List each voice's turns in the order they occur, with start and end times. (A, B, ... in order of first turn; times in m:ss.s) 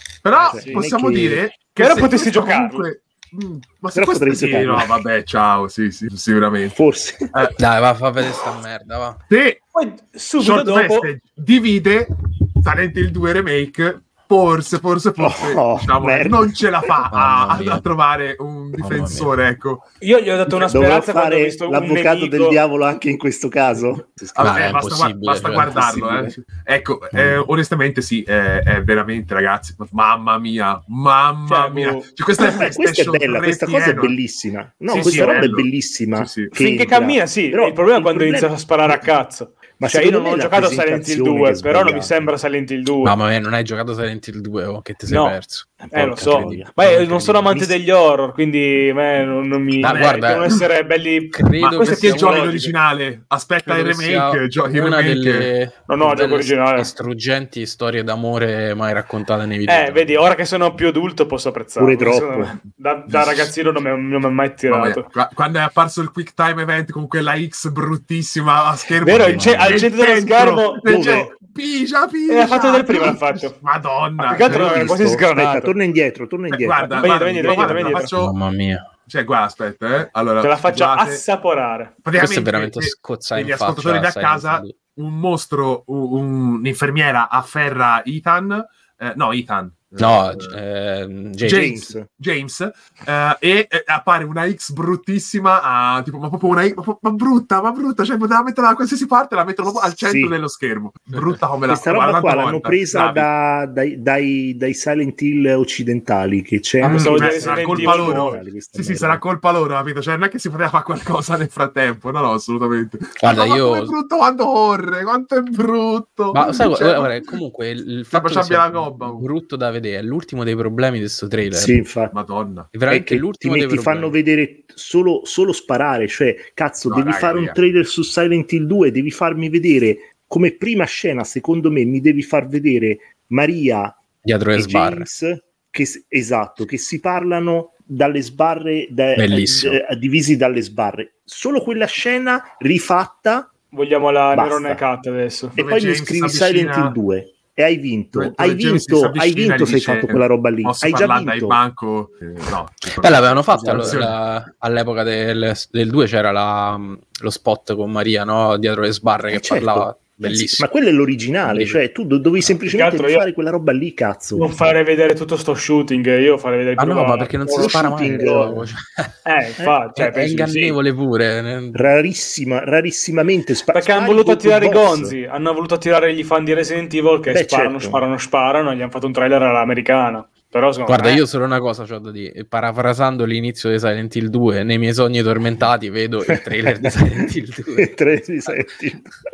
0:00.2-0:06.8 A
0:00.4-0:01.4 B
0:00.4-0:00.8 C
0:01.8-0:02.9 C
0:03.9-0:05.0 B
0:06.7-0:07.3 B
0:07.6-0:09.2 D
0:09.3-0:09.6 A
0:09.7-0:11.1 C
0:10.4-0:19.8 A
0:15.2-0:16.6 B
0:17.1-0:17.8 D
0:18.8-0:19.3 D
0:20.0-0:22.6 C
0:20.5-0:24.8 B
0:24.4-0:34.2 A
0:24.4-0:26.2 D
0:25.6-0:26.3 B
0:27.1-0:27.4 D
0:31.5-0:32.1 C
0:32.4-0:39.1 B
0:34.9-0:35.5 C
0:34.9-0:36.5 A
0:36.5-0:43.2 C
0:39.8-0:42.3 B
0:43.0-0:47.6 D
0:45.1-0:45.4 C
0:45.8-0:46.8 B
0:45.9-0:52.7 C
0:47.5-0:47.8 B
0:49.8-0:50.6 D
0:49.8-0:50.2 A
0:51.3-0:52.6 D
0:51.6-0:55.5 A
0:53.6-1:00.2 D
0:55.9-0:56.9 C
0:59.7-1:05.1 C
1:01.8-1:02.6 B
1:03.1-1:03.5 A
1:04.7-1:15.0 A
1:09.0-1:11.3 C
1:09.3-1:09.8 D
1:10.8-1:11.3 B
1:12.3-1:13.6 C
1:14.2-1:15.7 C
1:14.4-1:18.0 B
1:16.5-1:18.4 A
1:16.9-1:18.1 C
1:18.2-1:18.8 D
1:19.1-1:21.2 A
1:20.4-1:22.0 C
1:22.0-1:30.6 A
1:22.2-1:24.8 D
1:30.0-1:31.8 D
1:31.4-1:32.1 B
1:31.4-1:43.3 A
1:39.7-1:40.3 B
1:41.7-1:49.2 B
1:46.8-1:48.4 C
1:46.8-1:57.3 A
1:53.2-1:53.9 D
1:56.3-2:01.8 D
1:58.1-1:59.3 A
2:01.5-2:02.2 B
2:02.1-2:02.7 A
2:02.7-2:04.1 D
2:02.9-2:14.0 B
2:06.9-2:07.6 A
2:14.2-2:15.1 D
2:14.6-2:23.5 B
2:19.2-2:19.8 D
2:23.7-2:25.6 C
2:24.3-2:24.8 B
2:25.6-2:31.6 B
2:25.6-2:27.0 A
2:28.2-2:34.2 A
2:33.0-2:40.7 D
2:33.5-2:34.0 B
2:39.3-2:44.6 B
2:41.5-2:41.8 D
2:42.7-2:43.3 C
2:44.4-2:48.5 C
2:46.8-2:49.1 D
2:47.5-2:48.7 B
2:49.2-2:50.8 C
2:50.0-2:51.8 D
2:51.7-2:55.2 B
2:53.7-3:01.2 C
2:57.3-2:58.0 B
3:00.9-3:07.9 D
3:06.3-3:09.2 B